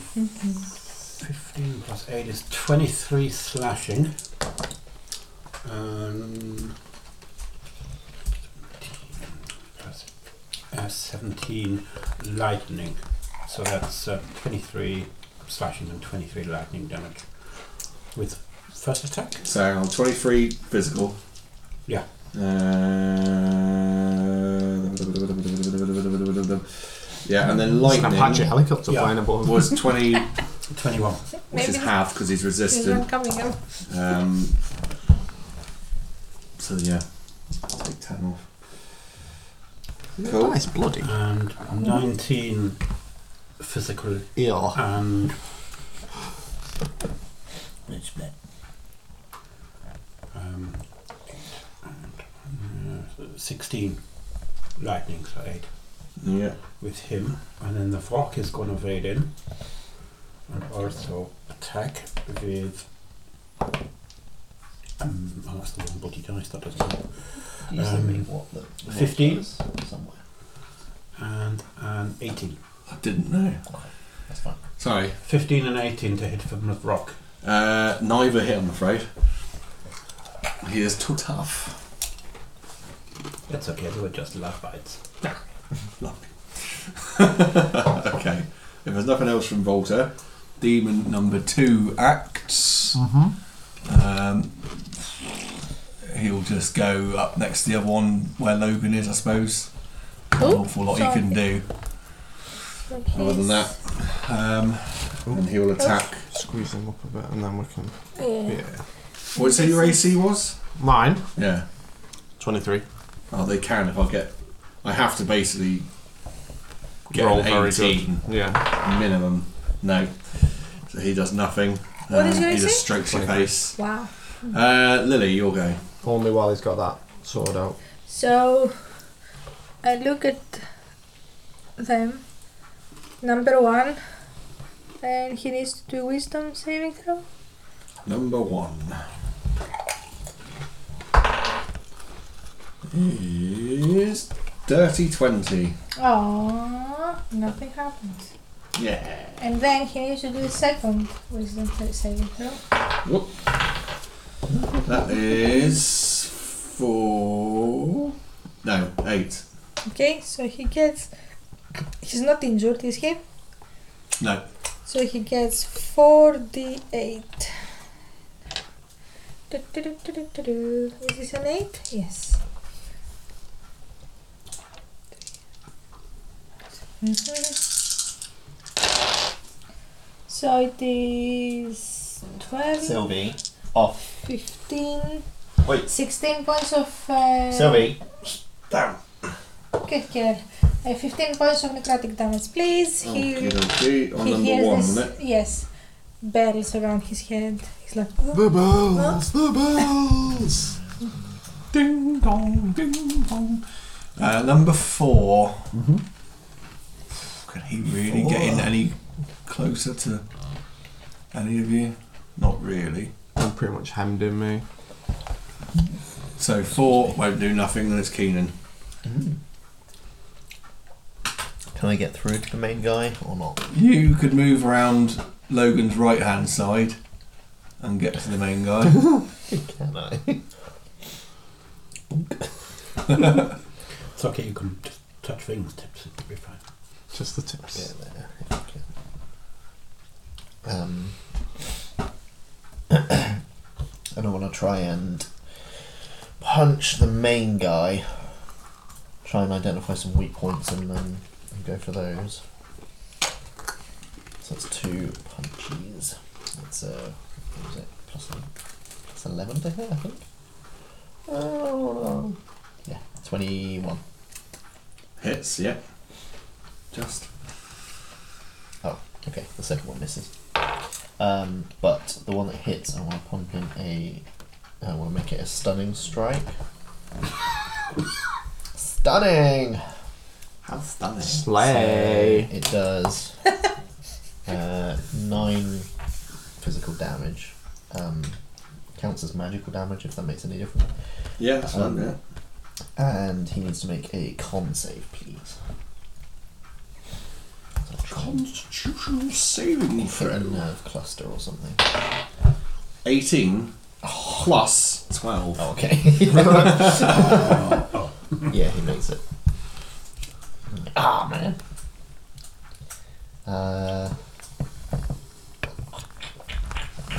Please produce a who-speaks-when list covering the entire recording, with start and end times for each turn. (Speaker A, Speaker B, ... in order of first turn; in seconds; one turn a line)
Speaker A: 1.1-4.1
Speaker A: 5.6-6.7
Speaker A: 9.8-10.1
Speaker A: 10.7-17.2
Speaker A: 18.1-19.4
Speaker B: 19.4-21.2
Speaker B: 22.3-28.5
Speaker C: 27.8-29.7
Speaker A: 28.9-29.2
Speaker B: 29.4-30.3
Speaker A: 30.7-31.2
Speaker D: 31.5-31.9
Speaker B: 31.5-33.0
Speaker D: 32.7-33.6
Speaker B: 33.9-34.5
Speaker B: 36.6-37.0
Speaker B: 37.6-38.4
Speaker B: 40.2-40.6
Speaker C: 40.2-41.1
Speaker A: 41.0-42.8
Speaker A: 43.6-45.4
Speaker C: 44.4-44.8
Speaker A: 50.3-54.0
Speaker A: 54.8-55.7
Speaker B: 56.2-56.5
Speaker A: 56.8-59.3
Speaker A: 60.5-62.8
Speaker A: 65.0-68.3
Speaker E: 67.7-70.2
Speaker A: 68.8-69.4
Speaker A: 71.2-72.6
Speaker B: 72.9-73.6
Speaker E: 73.7-74.6
Speaker B: 74.8-75.2
Speaker A: 75.2-77.2
Speaker B: 77.4-79.1
Speaker B: 80.6-81.8
Speaker A: 83.5-85.0
Speaker B: 86.0-93.0
Speaker C: 93.0-93.3
Speaker B: 93.8-95.3
Speaker B: 96.0-99.7
Speaker B: 100.3-101.7
Speaker D: 100.4-101.4
Speaker D: 102.9-103.7
Speaker B: 103.1-106.2
Speaker C: 106.3-107.9
Speaker D: 108.2-108.6
Speaker C: 108.5-108.8
Speaker D: 109.3-110.0
Speaker B: 109.3-110.5
Speaker C: 110.8-111.2
Speaker B: 111.3-111.6
Speaker C: 112.4-112.8
Speaker B: 113.3-114.3
Speaker B: 114.8-115.8
Speaker C: 117.1-118.7
Speaker B: 117.1-123.8
Speaker D: 122.1-122.8
Speaker C: 123.1-123.5
Speaker D: 123.8-124.1
Speaker B: 124.5-125.8
Speaker C: 126.0-127.8
Speaker D: 128.1-128.8
Speaker D: 129.8-130.6
Speaker D: 131.8-132.2
Speaker D: 133.2-134.0
Speaker D: 135.0-137.2
Speaker B: 138.1-139.0
Speaker B: 142.9-145.8
Speaker D: 146.0-148.3
Speaker B: 148.7-149.4
Speaker D: 149.4-152.6
Speaker B: 153.0-153.3
Speaker B: 154.8-158.1
Speaker B: 158.6-159.4
Speaker D: 159.8-161.1
Speaker D: 162.0-163.2
Speaker B: 164.2-164.4
Speaker D: 164.8-167.6
Speaker D: 169.5-172.4
Speaker D: 177.0-177.6
Speaker D: 180.3-183.0
Speaker E: 182.8-184.1
Speaker D: 184.2-185.2
Speaker D: 185.8-187.9
Speaker E: 187.5-188.0
Speaker B: 188.7-189.0
Speaker D: 189.8-193.6
Speaker B: 193.0-195.1
Speaker D: 194.2-195.7
Speaker D: 196.2-199.2
Speaker C: 198.3-200.7
Speaker B: 201.7-203.6
Speaker B: 204.2-205.7
Speaker B: 207.3-208.9
Speaker B: 209.4-210.2
Speaker B: 211.3-213.1
Speaker C: 213.3-214.6
Speaker B: 216.4-218.5
Speaker E: 219.1-219.3
Speaker E: 221.7-223.6
Speaker B: 223.7-227.0
Speaker B: 227.8-229.1
Speaker E: 229.5-230.4
Speaker A: 234.2-236.6
Speaker C: 237.1-237.9
Speaker E: 237.7-238.8
Speaker E: 240.6-241.1
Speaker E: 242.9-243.4
Speaker E: 244.1-245.3
Speaker E: 246.4-248.2
Speaker E: 249.2-252.4
Speaker E: 254.4-258.4
Speaker E: 259.1-260.2
Speaker E: 261.3-264.0
Speaker B: 265.2-265.8
Speaker B: 266.9-267.3
Speaker E: 268.8-270.3
Speaker E: 271.2-274.2
Speaker E: 274.8-276.5
Speaker E: 278.7-279.8
Speaker B: 280.6-281.4
Speaker C: 281.3-282.5
Speaker E: 281.4-283.4
Speaker E: 284.4-285.9
Speaker E: 286.6-288.4
Speaker E: 288.9-290.9
Speaker B: 291.4-292.2
Speaker E: 291.6-292.1
Speaker E: 292.9-295.6
Speaker E: 297.9-298.4
Speaker B: 298.1-300.6
Speaker E: 300.0-301.9
Speaker B: 303.0-305.7
Speaker E: 304.0-304.4
Speaker E: 305.6-307.8
Speaker B: 306.2-307.6
Speaker A: 307.1-308.1
Speaker E: 308.5-309.2
Speaker E: 310.7-311.6
Speaker E: 313.4-314.1